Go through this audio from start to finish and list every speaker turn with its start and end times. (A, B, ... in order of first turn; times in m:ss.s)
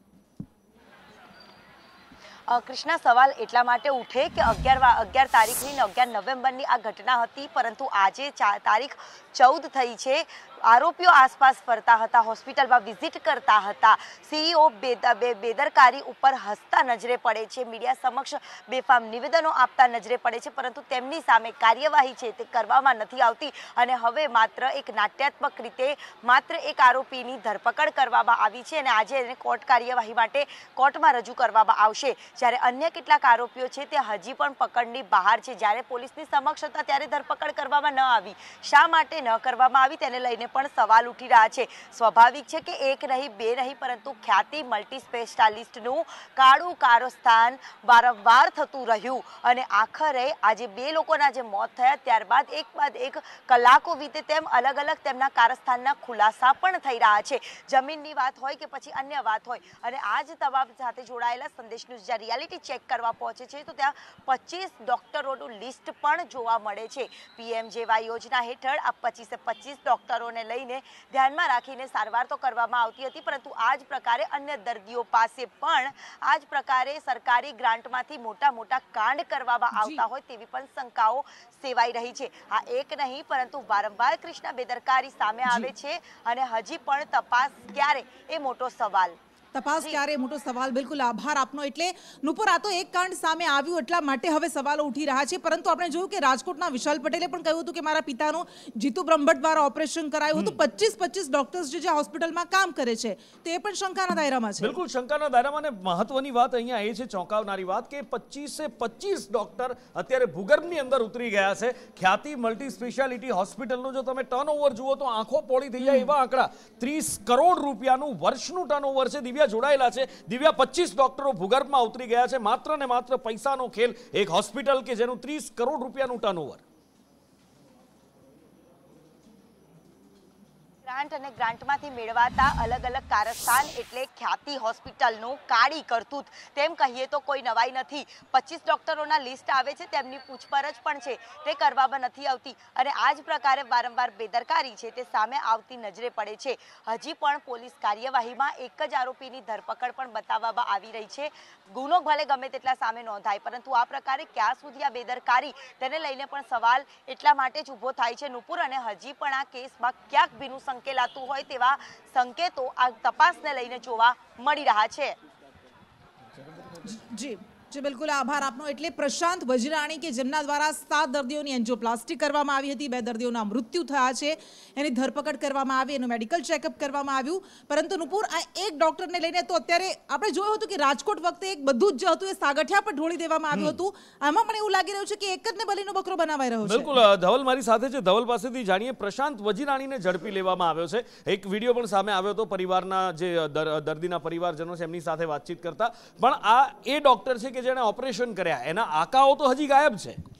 0:02.5-1:29.2 A
1:19.7-1:20.0 B
1:29.5-1:44.8 B
1:29.8-1:30.0 A
1:44.6-2:06.6 C
1:55.8-1:56.1 B
2:10.8-2:45.2 A
2:46.8-3:06.9 B
3:03.5-3:03.8 C
3:06.6-3:20.2 C